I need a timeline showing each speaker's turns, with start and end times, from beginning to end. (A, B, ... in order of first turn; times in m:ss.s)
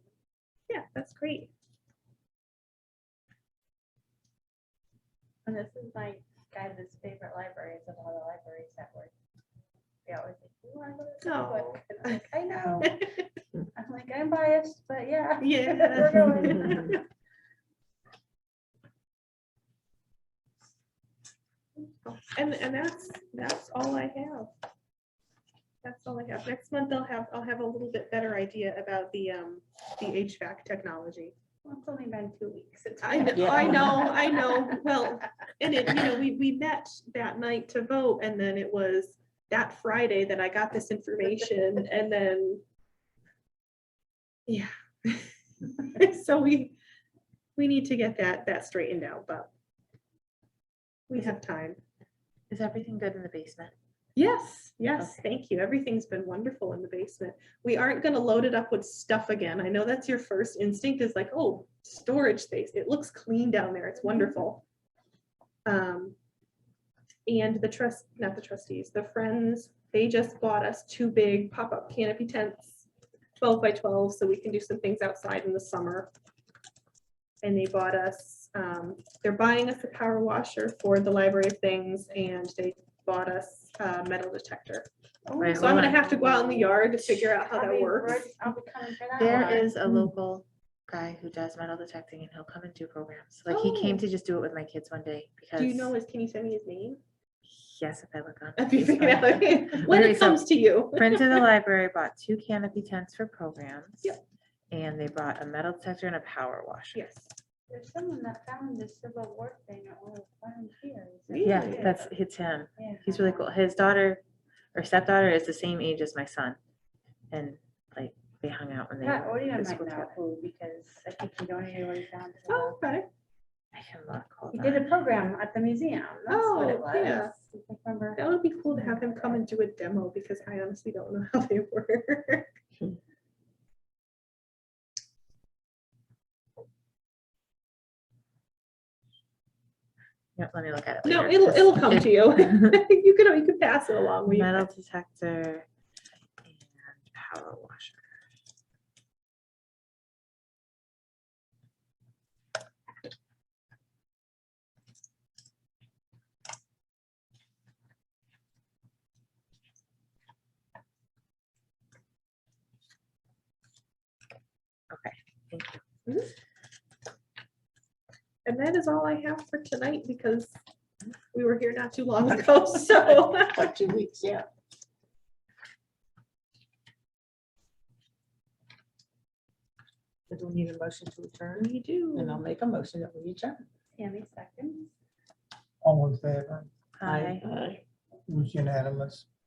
0:00.7-0:01.5 A
0:05.5-0:09.1 B
0:10.1-0:13.0 B
0:11.2-0:12.3 A
0:12.8-0:13.2 A
0:13.8-0:17.0 B
0:15.4-0:17.0 A
0:21.8-0:24.5 A
0:25.8-0:31.3 A
0:31.6-0:34.9 B
0:33.0-0:42.6 A
0:33.3-0:34.0 C
0:44.5-0:46.8 A
0:47.6-0:49.5 A
0:51.1-0:51.8 A
0:52.5-0:53.7 D
0:54.2-1:04.6 A
1:04.0-1:04.3 B
1:05.7-1:06.2 A
1:07.3-1:12.9 A
1:13.4-1:16.1 A
1:17.4-1:24.9 A
1:25.3-1:26.8 B
1:25.4-1:28.2 A
1:25.4-1:26.0 D
1:27.3-1:29.8 B
1:29.2-1:35.9 D
1:33.5-1:34.0 A
1:35.6-1:37.0 A
1:37.5-1:44.2 D
1:38.6-1:41.5 A
1:44.7-1:47.0 D
1:46.9-1:47.3 A
1:47.7-1:52.1 B
1:51.3-1:51.9 A
1:51.4-1:54.2 D
1:52.8-1:53.4 B
1:54.7-1:56.6 D
1:57.3-2:00.1 D
1:59.0-2:02.8 B
2:02.5-2:03.1 A
2:03.7-2:04.9 D
2:04.5-2:09.5 B
2:06.3-2:07.3 A
2:08.2-2:12.6 A
2:20.4-2:22.7 D
2:21.0-2:24.7 A
2:24.3-2:25.7 D
2:26.4-2:28.1 D
2:44.9-2:45.8 D
2:46.1-2:46.3 A
2:48.4-2:50.6 A
2:51.3-2:53.7 A
2:53.5-2:54.5 C
3:00.3-3:03.6 C
3:01.6-3:02.4 A
3:04.0-3:04.9 B
3:05.8-3:06.7 E
3:07.0-3:07.4 D
3:07.0-3:07.8 C
3:08.3-3:09.3 E